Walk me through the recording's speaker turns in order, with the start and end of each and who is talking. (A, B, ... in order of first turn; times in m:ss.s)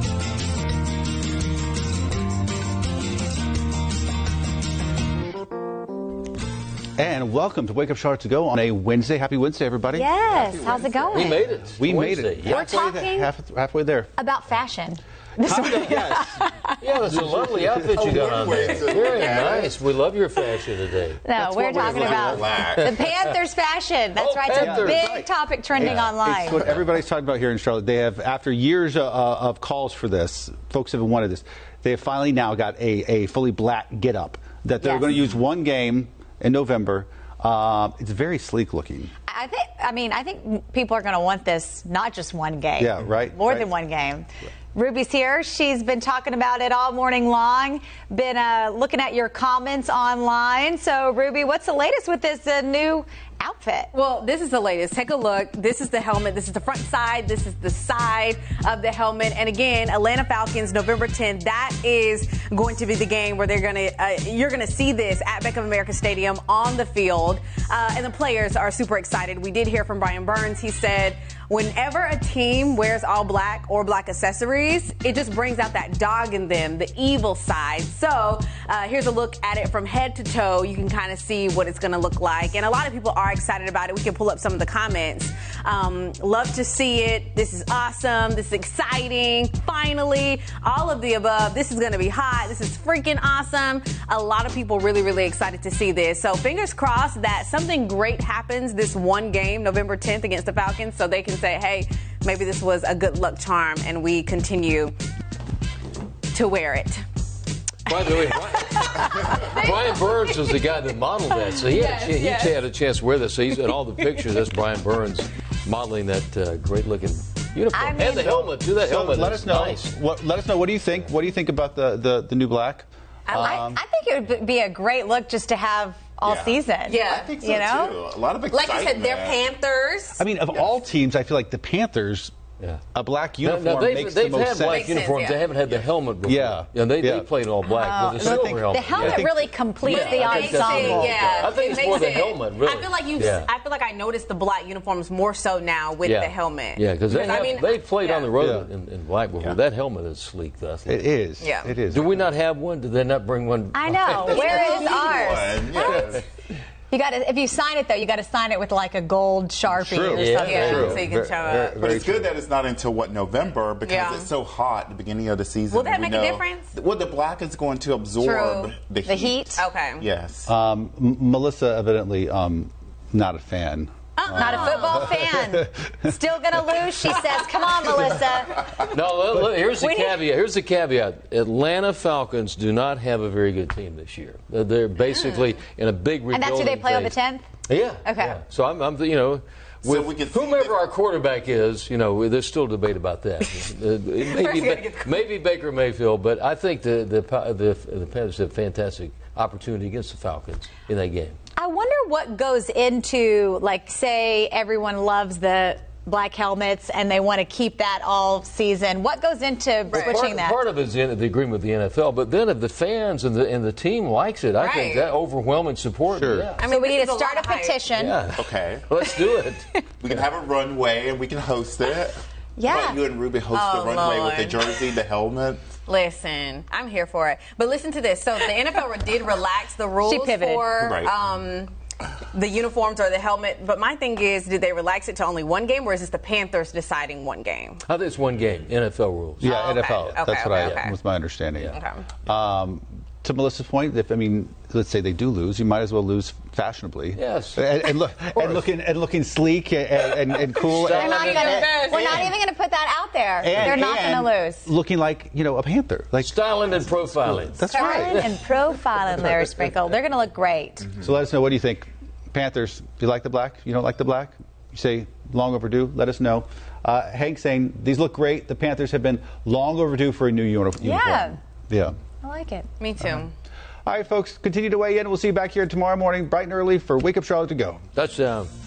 0:07.0-0:10.1 A
0:09.9-0:11.5 B
0:10.2-0:11.5 C
0:11.1-0:12.8 D
0:11.7-0:14.1 A
0:12.4-0:13.3 B
0:14.2-0:16.8 B
0:15.4-0:16.4 A
0:16.8-0:21.3 D
0:17.1-0:18.1 A
0:17.8-0:19.8 C
0:21.2-0:26.6 B
0:21.4-0:22.3 A
0:21.5-0:23.1 C
0:22.7-0:23.1 D
0:24.2-0:25.2 D
0:24.5-0:39.1 A
0:34.8-0:35.2 B
0:39.3-0:53.9 B
0:42.8-0:43.7 A
0:53.9-1:44.9 E
1:46.4-1:46.9 E
1:47.8-1:59.9 D
1:48.7-1:49.7 E
1:51.7-1:52.5 E
1:57.7-1:58.5 B
1:58.8-2:03.8 A
2:03.3-2:08.0 B
2:06.2-2:09.5 C
2:06.9-2:07.5 E
2:08.5-2:10.2 E
2:10.2-2:12.3 A
2:13.0-2:15.0 A
2:13.4-2:19.3 D
2:14.7-2:15.5 E
2:15.7-2:15.9 C
2:16.2-2:17.3 A
2:17.7-2:21.5 B
2:18.2-2:19.5 A
2:19.8-2:28.3 E
2:19.8-2:23.5 D
2:26.0-2:31.2 D
2:28.4-2:28.7 A
2:30.8-2:32.2 A
2:31.4-2:31.8 E
2:31.9-2:34.6 D
2:33.7-2:36.0 B
2:34.2-2:36.3 C
2:34.6-2:35.0 E
2:36.9-2:41.0 B
2:39.7-2:42.3 A
2:40.1-2:41.1 D
2:40.5-2:41.8 E
2:41.7-2:50.5 C
2:43.8-2:44.3 E
2:45.7-2:46.7 E
2:48.2-2:48.7 E
2:49.0-2:49.6 B
2:49.6-2:50.0 E
2:50.5-2:56.1 A
2:54.2-2:55.1 E
2:54.4-2:58.7 B
2:58.9-3:07.2 D
2:59.8-3:00.2 B
3:05.1-3:05.5 E
3:06.3-3:07.4 B
3:07.7-3:21.4 D
3:08.0-3:08.4 B
3:09.8-3:10.8 C
3:14.2-3:15.2 E
3:21.6-3:30.6 B
3:29.9-3:30.3 E
3:29.9-3:36.6 D
3:34.6-3:35.2 E
3:36.1-3:36.5 A
3:36.6-3:37.9 E
3:36.6-3:38.2 B
3:37.9-3:39.7 D
3:38.3-3:38.9 C
3:40.0-3:45.8 C
3:42.6-3:43.0 B
3:43.5-3:44.8 E
3:45.8-3:51.7 E
3:50.0-3:50.7 B
3:50.7-3:51.5 C
3:52.6-3:57.8 E
3:57.8-3:59.5 D
3:59.4-4:12.3 A
3:59.5-4:00.8 E
4:00.1-4:00.9 D
4:07.2-4:07.6 D
4:08.3-4:08.6 D
4:10.7-4:11.6 D
4:10.9-4:14.7 B
4:11.4-4:11.9 E
4:13.4-4:18.3 A
4:16.2-4:18.3 D
4:17.7-4:20.9 B
4:21.0-4:31.9 A
4:30.8-4:31.4 B
4:32.2-4:32.7 B
4:32.8-4:33.3 E
4:33.9-4:37.8 A
4:38.0-4:38.5 D